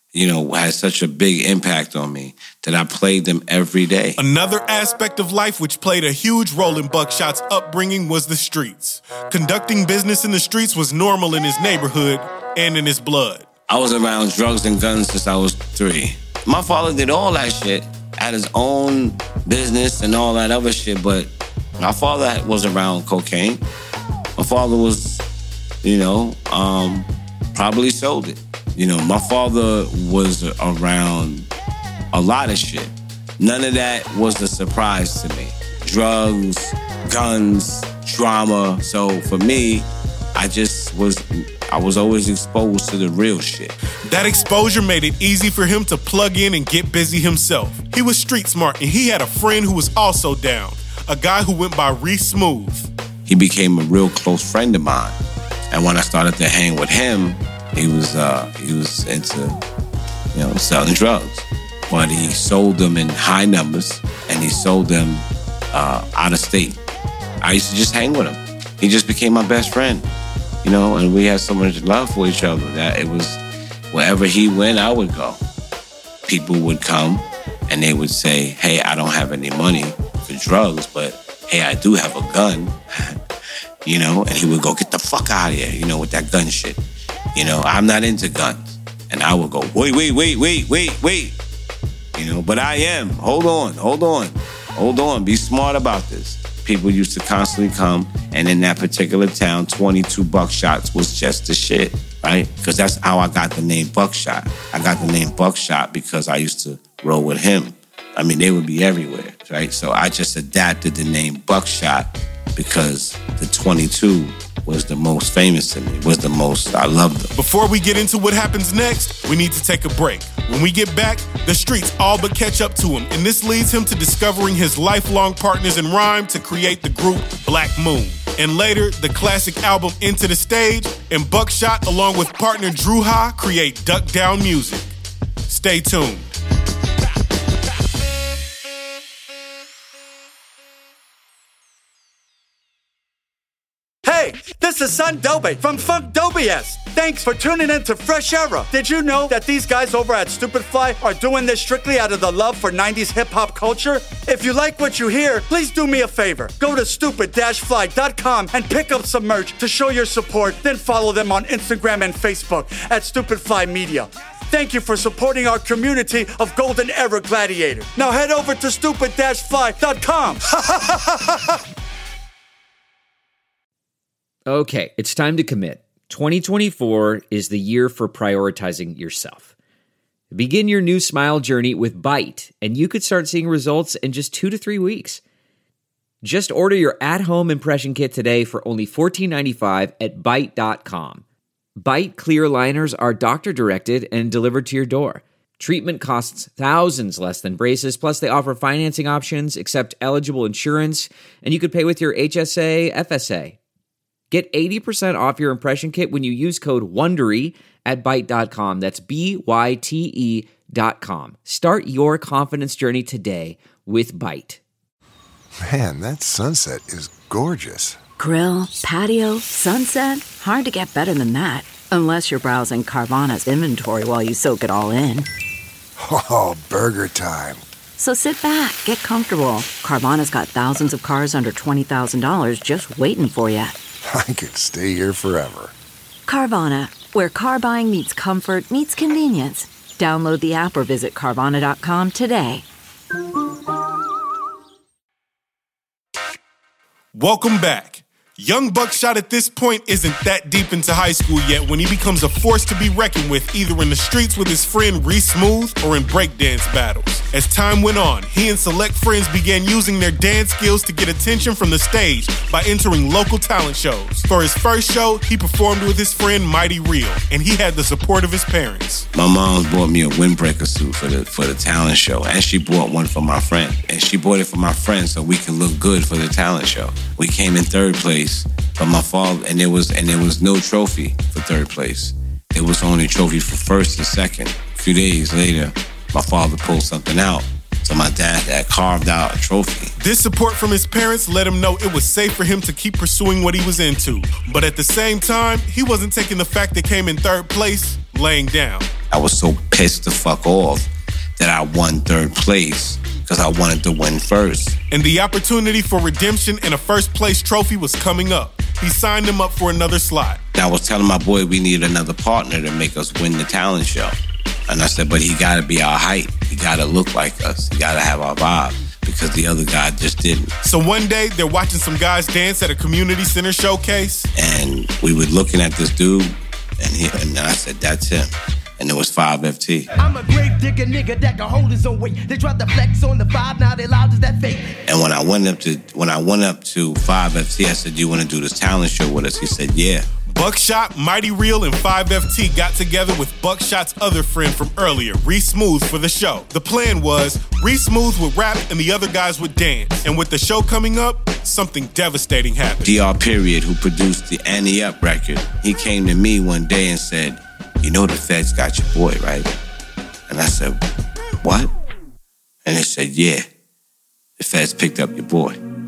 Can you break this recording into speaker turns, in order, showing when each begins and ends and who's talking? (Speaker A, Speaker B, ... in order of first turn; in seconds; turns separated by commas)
Speaker A: 0.1-4.2, Speaker B: 4.2-13.5, Speaker A: 13.7-23.6, Speaker A: 24.4-25.2, Speaker A: 25.8-31.5, Speaker A: 32.1-43.8, Speaker B: 44.0-52.9, Speaker A: 53.3-55.2, Speaker A: 55.7-59.6, Speaker A: 60.3-66.8, Speaker A: 67.4-70.1, Speaker A: 70.6-75.4, Speaker A: 76.3-83.2, Speaker A: 83.8-86.8, Speaker A: 87.3-91.4, Speaker A: 92.2-117.3, Speaker B: 117.3-134.9, Speaker B: 135.5-136.3, Speaker C: 144.1-171.6, Speaker D: 174.5-179.5, Speaker D: 180.3-185.2, Speaker D: 186.2-191.2, Speaker D: 191.8-203.6, Speaker D: 204.3-214.6, Speaker E: 215.6-218.0, Speaker F: 218.2-225.3, Speaker E: 226.0-227.7, Speaker F: 228.0-233.8, Speaker E: 234.0-235.8, Speaker F: 236.3-242.7, Speaker B: 247.1-269.1, Speaker A: 269.1-289.9, Speaker B: 290.0-298.9, Speaker A: 299.1-304.8, Speaker B: 304.9-310.4, Speaker A: 310.6-320.5, Speaker B: 320.6-324.3, Speaker A: 324.4-329.9, Speaker G: 330.0-334.7, Speaker A: 334.9-340.1, Speaker B: 340.3-353.0, Speaker A: 352.8-359.5, Speaker A: 360.3-360.8, Speaker A: 361.4-361.7, Speaker A: 362.6-363.5, Speaker A: 364.4-365.6